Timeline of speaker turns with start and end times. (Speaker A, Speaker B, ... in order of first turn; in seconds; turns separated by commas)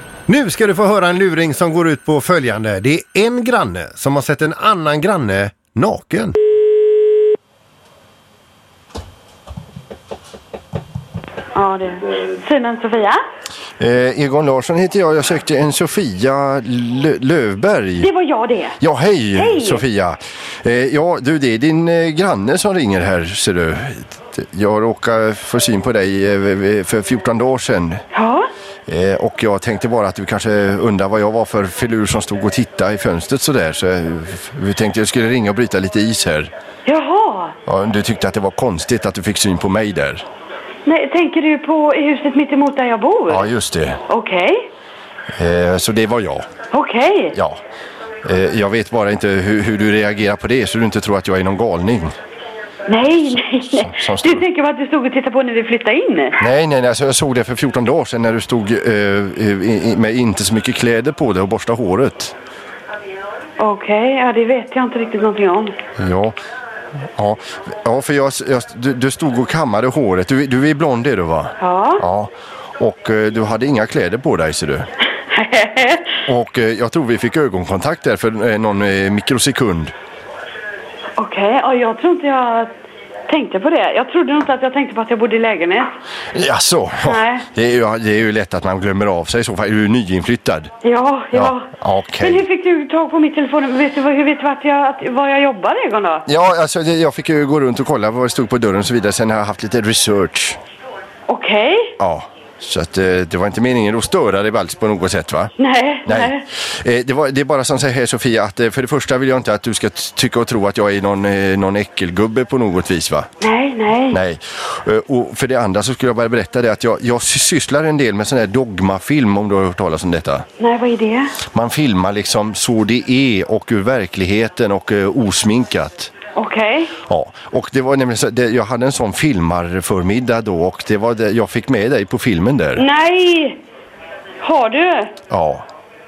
Speaker A: 0.3-6.3, Speaker B: 11.5-13.2, Speaker C: 13.8-18.1, Speaker B: 18.0-18.8, Speaker C: 18.8-28.0, Speaker B: 19.4-19.8, Speaker B: 28.1-28.5, Speaker C: 28.9-36.5, Speaker B: 36.9-37.5, Speaker C: 37.6-40.2, Speaker B: 40.9-43.5, Speaker C: 43.3-44.0, Speaker B: 44.1-44.7, Speaker C: 45.4-46.5, Speaker B: 46.7-47.4, Speaker C: 48.2-52.1, Speaker B: 52.9-56.4, Speaker C: 53.6-54.4, Speaker C: 56.4-62.3, Speaker B: 63.6-65.8, Speaker C: 66.0-66.3, Speaker C: 67.2-74.9, Speaker B: 71.6-72.0, Speaker B: 75.3-76.2, Speaker C: 76.2-79.9, Speaker B: 81.2-82.7, Speaker B: 83.3-86.0, Speaker C: 86.3-90.7, Speaker B: 87.0-87.5, Speaker B: 90.8-91.7, Speaker C: 91.3-92.4, Speaker B: 92.2-96.3, Speaker C: 96.3-100.6, Speaker B: 101.3-101.9, Speaker C: 102.0-105.5, Speaker B: 105.6-106.4, Speaker C: 106.0-113.3, Speaker B: 113.4-114.2, Speaker C: 114.1-120.4, Speaker B: 120.6-121.3, Speaker C: 121.5-126.1, Speaker B: 126.3-126.9, Speaker C: 127.1-132.8, Speaker B: 132.8-133.6, Speaker B: 134.4-135.1, Speaker C: 135.3-135.6